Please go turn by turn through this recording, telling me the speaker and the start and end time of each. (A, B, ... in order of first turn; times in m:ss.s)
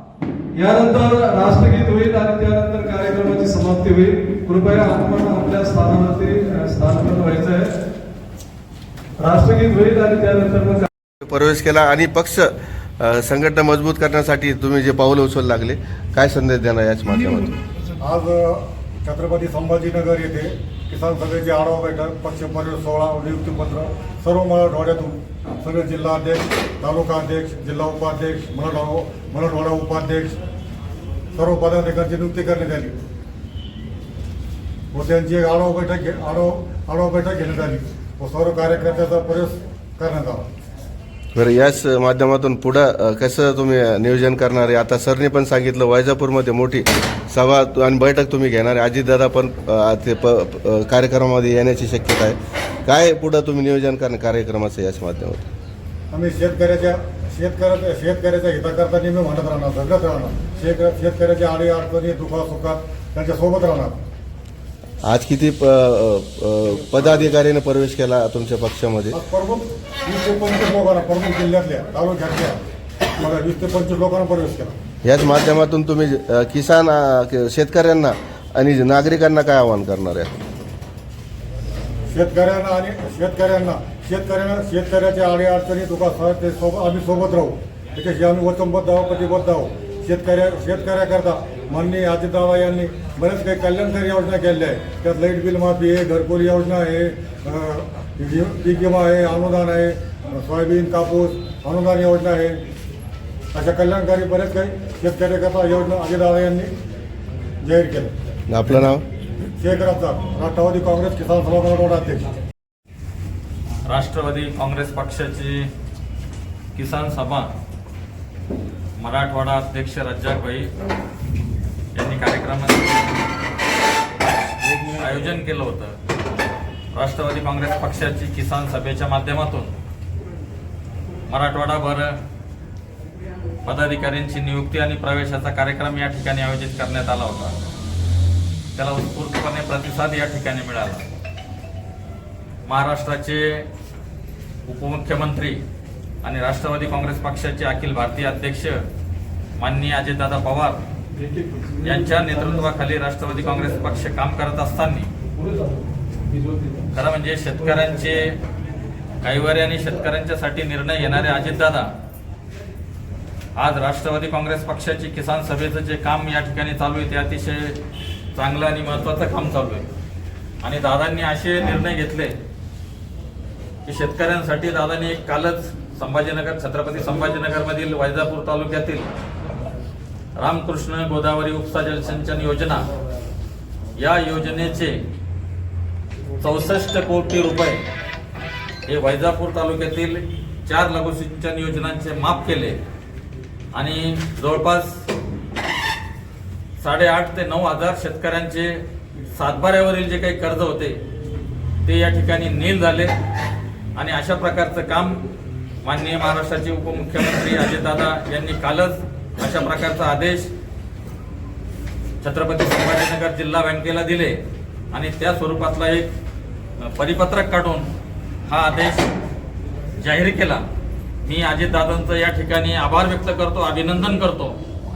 0:00.6-0:07.7 A
0:09.2-0:10.9 A
0:11.2-0:17.5 B
0:18.0-0:30.4 C
0:31.3-0:32.9 C
0:34.9-0:40.4 C
0:41.3-0:55.5 B
0:56.1-1:04.0 C
1:05.0-1:09.2 B
1:09.1-1:12.6 C
1:13.2-1:14.8 C
1:15.0-1:20.4 B
1:22.1-1:42.6 C
1:43.5-1:46.7 C
1:47.6-1:48.1 C
1:48.5-1:49.0 B
1:49.6-1:52.3 C
1:53.9-1:55.7 D
1:56.7-1:57.5 D
1:59.0-2:00.7 D
2:01.9-2:02.9 D
2:04.9-2:06.0 D
2:06.9-2:09.7 D
2:11.3-2:12.1 D
2:13.6-2:17.5 D
2:18.7-2:21.0 D
2:22.7-2:23.6 D
2:24.6-2:25.6 D
2:26.2-2:28.8 D
2:29.6-2:30.8 D
2:31.2-2:32.7 A
2:31.8-2:35.1 D
2:35.4-2:36.9 A
2:36.9-2:38.2 D
2:39.2-2:41.9 D
2:43.6-2:47.7 D
2:48.3-2:49.8 D
2:50.6-2:52.3 D
2:53.8-2:59.1 D
3:00.4-3:02.8 D
3:04.0-3:04.9 D
3:06.4-3:07.8 D
3:08.9-3:12.8 D
3:13.7-3:14.9 D
3:16.8-3:18.8 D
3:19.4-3:21.0 D
3:21.8-3:23.1 D
3:24.0-3:25.2 D
3:25.8-3:30.5 D
3:32.2-3:34.4 D
3:34.9-3:36.1 D
3:36.9-3:37.9 D
3:38.5-3:39.0 D
3:40.0-3:40.6 D
3:41.2-3:44.6 D